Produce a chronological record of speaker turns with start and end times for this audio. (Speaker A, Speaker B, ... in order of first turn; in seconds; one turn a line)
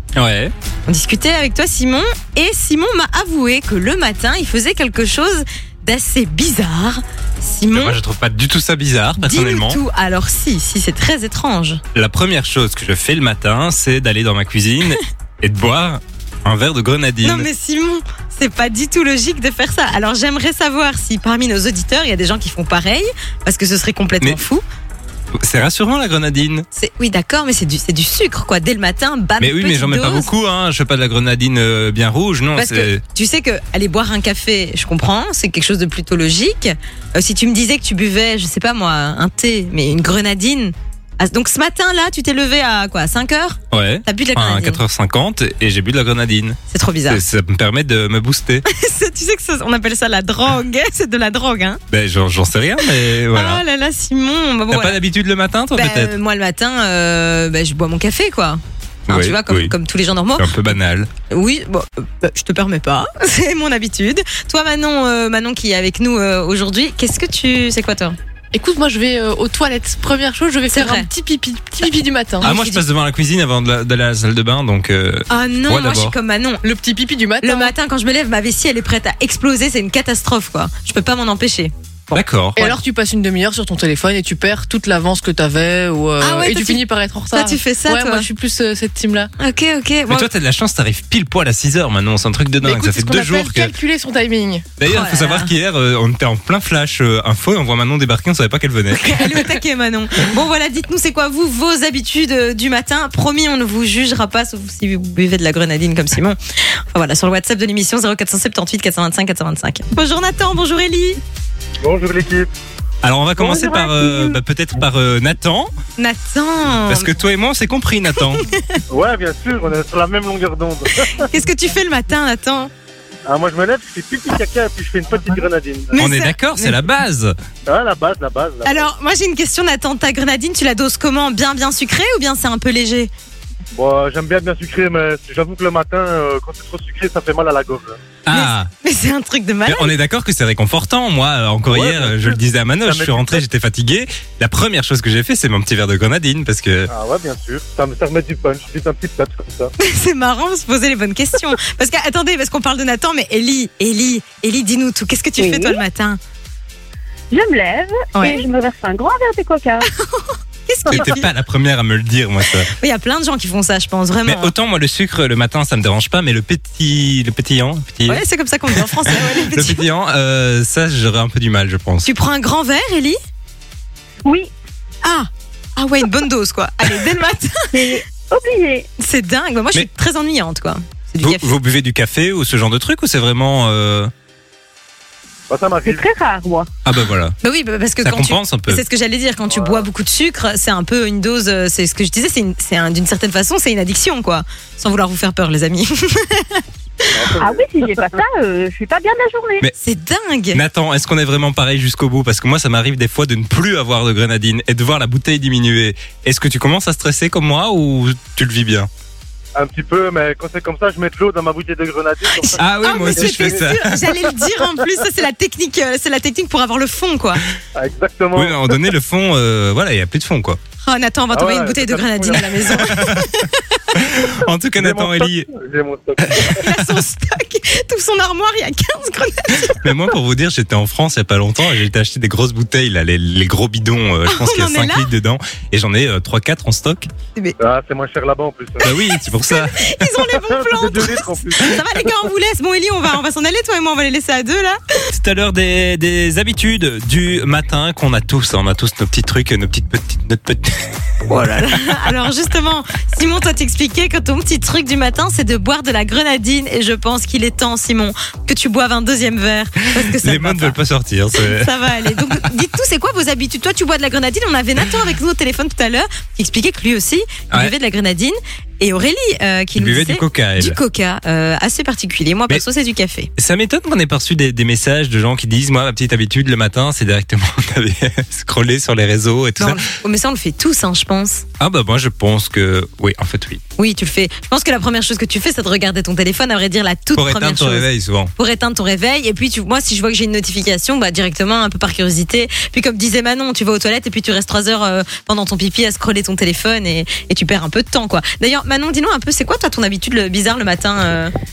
Speaker A: 0.1-0.5
Speaker B: 0.9-8.0
Speaker A: 7.7-9.8
Speaker B: 9.2-11.8
Speaker A: 11.9-17.5
Speaker B: 17.2-24.6
Speaker A: 25.4-26.6
Speaker B: 26.7-30.3
Speaker A: 29.4-33.0
Speaker B: 32.5-44.8
Speaker A: 43.7-48.6
Speaker B: 46.7-47.2
Speaker B: 48.7-51.8
Speaker A: 51.9-53.6
Speaker B: 52.8-55.0
Speaker A: 54.7-56.1
Speaker B: 55.7-60.7
Speaker A: 59.1-59.7
Speaker A: 60.4-61.1
Speaker B: 61.3-68.2
Speaker C: 68.5-72.5
Speaker B: 70.7-71.1
Speaker B: 72.4-72.8
Speaker A: 72.4-76.1
Speaker B: 75.3-76.6
Speaker C: 76.6-77.7
Speaker B: 77.4-81.7
Speaker A: 82.1-82.7
Speaker C: 82.6-89.3
Speaker B: 86.2-88.3
Speaker B: 89.4-90.3
Speaker A: 90.1-93.7
Speaker C: 92.6-94.7
Speaker A: 94.8-99.4
Speaker B: 94.8-95.5
Speaker B: 98.9-106.4
Speaker B: 106.9-111.2
Speaker D: 111.8-112.5
Speaker A: 113.0-115.7
Speaker B: 116.0-117.1
Speaker A: 116.9-118.4
Speaker B: 118.3-118.7
Speaker D: 118.9-121.3
Speaker B: 121.2-122.7
Speaker D: 123.2-126.1
Speaker B: 125.9-126.8
Speaker A: 126.0-127.3
Speaker D: 127.7-128.9
Speaker B: 128.6-133.1
Speaker D: 133.7-138.0
Speaker A: 138.2-138.7
Speaker B: 138.3-139.9
Speaker A: 139.6-146.9
Speaker D: 141.7-143.4
Speaker D: 146.9-149.7
Speaker B: 149.8-156.2
Speaker E: 155.4-155.8
Speaker E: 157.3-159.9
Speaker B: 158.1-158.4
Speaker B: 159.9-161.3
Speaker A: 160.8-162.7
Speaker B: 162.7-164.5
Speaker A: 164.2-172.1
Speaker B: 168.1-169.8
Speaker B: 172.0-173.2
Speaker E: 174.2-174.5
Speaker B: 175.0-178.0
Speaker E: 177.7-178.9
Speaker B: 179.0-181.5
Speaker A: 181.2-184.1
Speaker D: 185.5-186.0
Speaker E: 185.8-186.7
Speaker A: 186.8-187.3
Speaker B: 187.4-197.2
Speaker A: 188.0-188.8
Speaker D: 189.5-189.9
Speaker D: 197.1-197.8
Speaker E: 197.3-199.7
Speaker B: 199.8-200.6
Speaker A: 200.5-208.9
Speaker D: 209.5-214.3
Speaker A: 212.6-213.9
Speaker B: 212.8-217.4
Speaker D: 217.7-218.6
Speaker A: 218.3-220.6
Speaker B: 220.8-223.6
Speaker D: 221.3-222.7
Speaker A: 222.7-223.2
Speaker A: 223.9-225.5
Speaker D: 224.8-226.5
Speaker A: 226.2-226.9
Speaker B: 226.5-230.1
Speaker A: 229.6-237.1
Speaker B: 234.3-235.1
Speaker D: 237.6-238.9
Speaker A: 238.8-240.0
Speaker B: 239.1-244.8
Speaker D: 240.4-241.8
Speaker A: 245.1-250.7
Speaker B: 251.3-260.8
Speaker A: 260.1-262.4
Speaker B: 261.3-273.3
Speaker A: 269.8-270.8
Speaker A: 273.4-279.8
Speaker B: 279.6-281.4
Speaker A: 281.6-283.6
Speaker B: 283.8-301.3
Speaker A: 287.1-288.3